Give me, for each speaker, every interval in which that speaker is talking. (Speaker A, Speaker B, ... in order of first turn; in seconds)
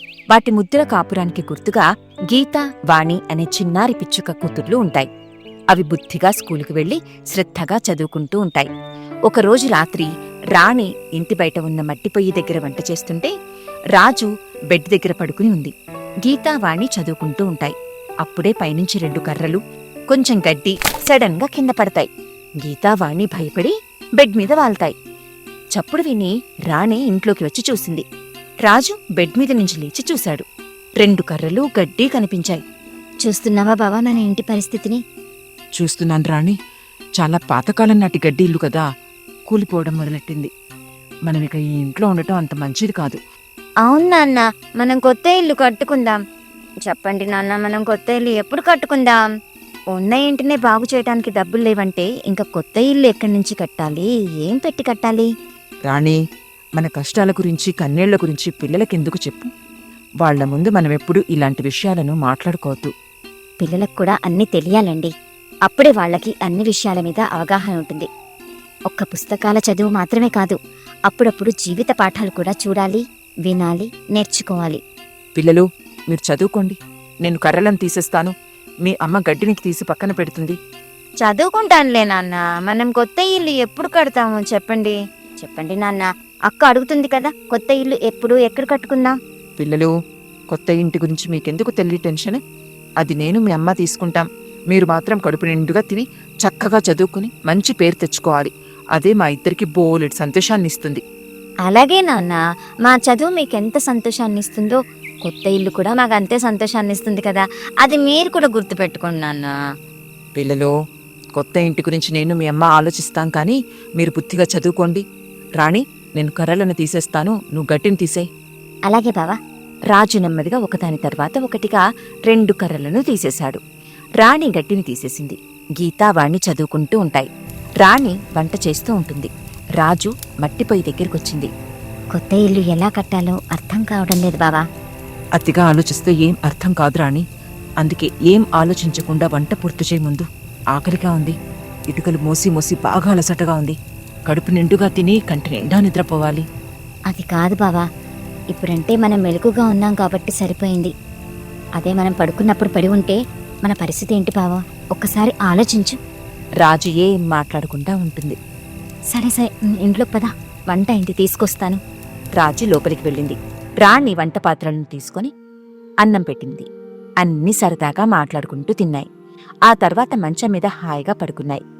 Speaker A: 0.3-5.1, 5.7-8.7, 9.3-13.3, 13.9-15.7, 16.2-19.6, 20.1-22.1, 22.6-24.9, 25.7-28.0, 28.6-30.4, 31.0-32.6, 119.9-123.6, 124.2-127.3, 127.8-131.5, 156.6-158.4, 161.4-161.6, 162.4-165.3, 166.0-166.7, 167.2-169.1, 169.7-171.6
Speaker B: 33.2-35.0, 43.9-46.1, 46.9-49.2, 49.9-55.2, 63.6-65.1, 65.7-68.0, 68.9-70.5, 71.1-74.8, 81.2-89.1, 101.7-104.8, 105.3-109.5, 118.9-119.3, 132.1-134.6, 147.1-147.8, 148.5-150.9, 151.8-155.9, 159.1-161.7
Speaker C: 35.8-36.6, 37.2-38.8, 39.5-40.5, 41.3-43.2, 55.9-56.2, 56.8-59.5, 60.2-62.9, 75.3-78.3, 78.8-80.6, 89.6-89.9, 90.5-92.4, 93.0-101.0, 110.3-110.7, 111.3-115.0, 115.6-118.3, 135.4-137.2, 137.8-141.3, 141.9-143.8, 144.3-146.4